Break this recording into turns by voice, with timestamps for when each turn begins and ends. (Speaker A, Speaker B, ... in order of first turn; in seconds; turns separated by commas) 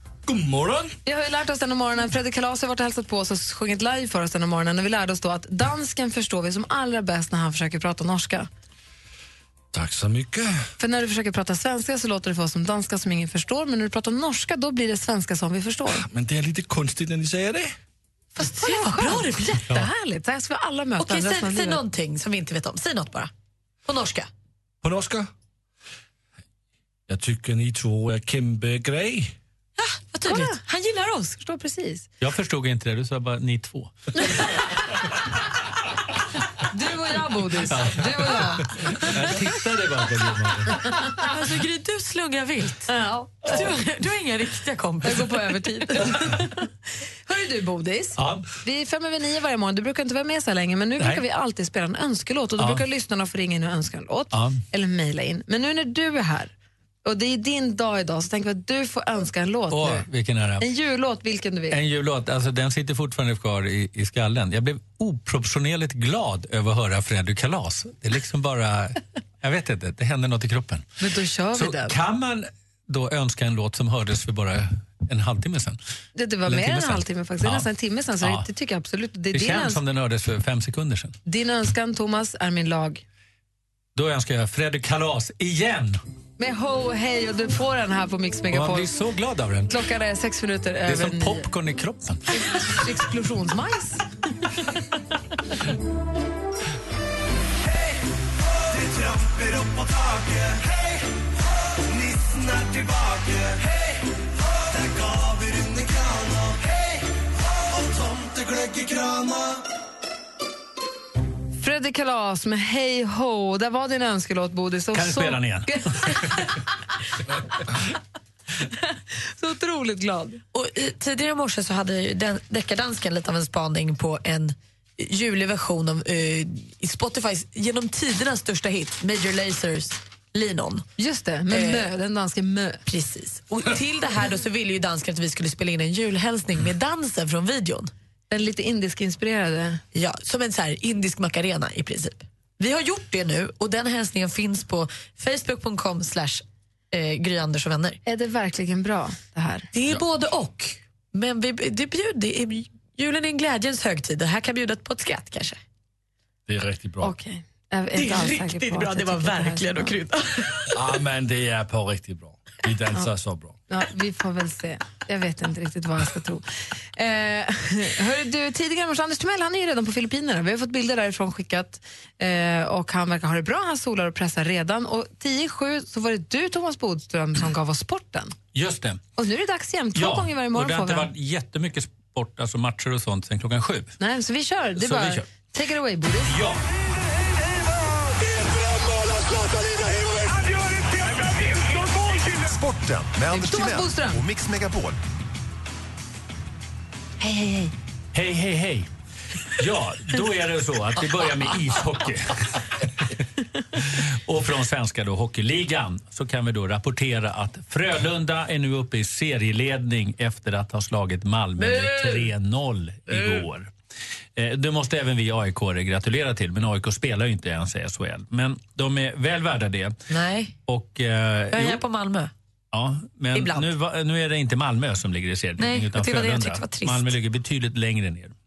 Speaker A: 0.3-0.9, Speaker B: 1.1-8.5, Speaker A: 9.7-10.6, Speaker B: 10.8-16.1, Speaker A: 16.1-17.7, Speaker B: 18.4-21.8, Speaker C: 18.4-19.9, Speaker C: 21.0-23.3, Speaker C: 23.9-24.3, Speaker A: 24.8-25.3, Speaker A: 27.1-29.4, Speaker C: 29.8-31.4, Speaker B: 30.3-30.6, Speaker B: 31.4-32.1, Speaker D: 32.2-34.1, Speaker B: 36.7-38.7, Speaker D: 37.7-40.9, Speaker C: 41.1-46.5, Speaker B: 42.9-43.6, Speaker B: 45.0-46.6, Speaker B: 47.3-56.5, Speaker D: 48.2-48.5, Speaker D: 52.6-52.8, Speaker D: 54.3-54.6, Speaker B: 57.0-60.1, Speaker D: 59.7-60.6, Speaker B: 60.6-61.8, Speaker D: 61.7-70.9, Speaker B: 71.0-72.0, Speaker D: 71.5-75.8, Speaker B: 76.2-79.8, Speaker D: 76.5-77.7, Speaker D: 79.3-81.2, Speaker B: 81.3-83.0, Speaker D: 84.0-86.0, Speaker B: 86.4-88.9, Speaker D: 88.5-89.7, Speaker B: 89.7-91.5, Speaker D: 90.9-92.6, Speaker B: 92.3-94.0, Speaker E: 98.7-101.0, Speaker E: 101.9-103.8, Speaker E: 104.5-106.8, Speaker E: 107.7-109.6, Speaker B: 111.6-116.3, Speaker D: 114.9-116.2, Speaker B: 119.1-120.4, Speaker C: 120.5-130.8, Speaker B: 131.0-132.8, Speaker C: 131.5-131.9, Speaker C: 132.9-137.9, Speaker B: 138.3-139.8, Speaker C: 139.9-148.0, Speaker B: 148.1-149.7, Speaker C: 149.7-155.6, Speaker A: 156.5-157.1, Speaker B: 157.0-159.9, Speaker C: 157.9-160.8, Speaker A: 160.7-163.6, Speaker B: 163.7-178.3, Speaker D: 178.5-179.0, Speaker B: 179.2-181.1, Speaker D: 179.9-184.0, Speaker B: 184.0-186.4, Speaker D: 184.8-185.2, Speaker D: 186.3-186.6, Speaker F: 192.4-195.0, Speaker B: 193.3-194.2, Speaker B: 197.2-197.7, Speaker D: 198.1-198.9, Speaker D: 199.5-202.7, Speaker D: 203.8-213.7, Speaker C: 211.6-212.3, Speaker D: 214.4-220.0, Speaker C: 220.1-220.6, Speaker D: 220.7-221.8, Speaker C: 221.5-222.3, Speaker D: 222.7-228.3, Speaker C: 223.3-223.7, Speaker C: 225.6-227.1